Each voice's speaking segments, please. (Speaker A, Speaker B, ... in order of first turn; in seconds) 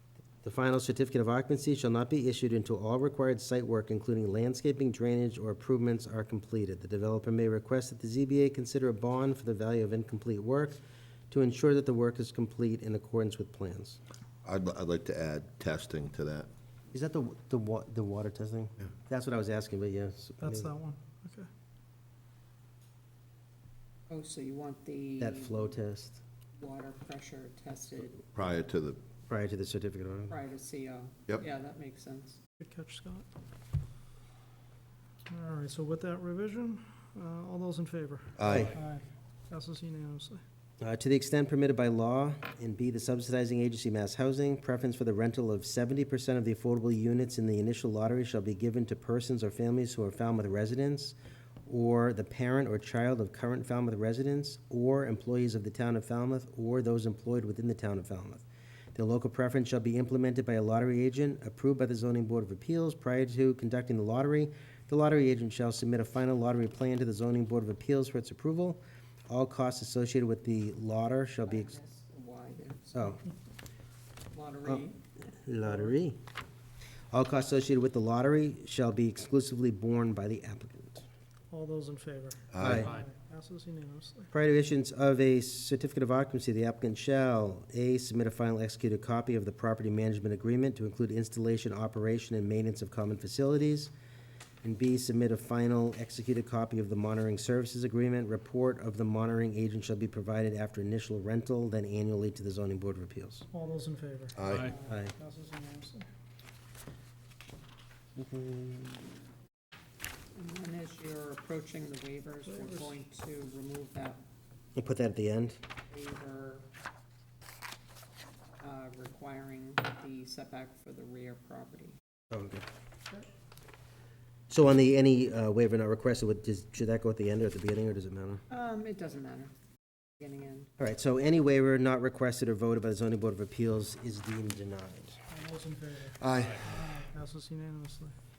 Speaker A: 0.4-10.8, 11.3-14.0, 16.9-20.7, 25.2-26.2, 29.3-30.4, 38.4-38.7, 40.8-51.1, 51.7-71.7, 74.7-76.2, 77.1-81.0, 82.6-83.0, 84.3-93.9, 94.6-103.5, 104.9-105.1, 108.2-109.0, 114.8-115.6, 122.3-122.6, 124.5-128.4, 130.8-135.2
Speaker B: 14.4-16.5, 28.3-29.0, 38.4-38.7, 82.5-82.9, 104.4-104.7, 136.2-136.6
Speaker C: 20.4-21.5, 32.6-33.2, 35.3-40.4, 81.5-84.3, 103.5-106.0, 112.5-112.9, 135.3-138.1
Speaker D: 24.1-25.8, 26.6-28.2, 30.3-32.4, 71.5-73.2, 74.3-75.0, 110.3-114.2, 115.9-116.6, 118.6-121.9, 128.5-129.5, 130.2-130.7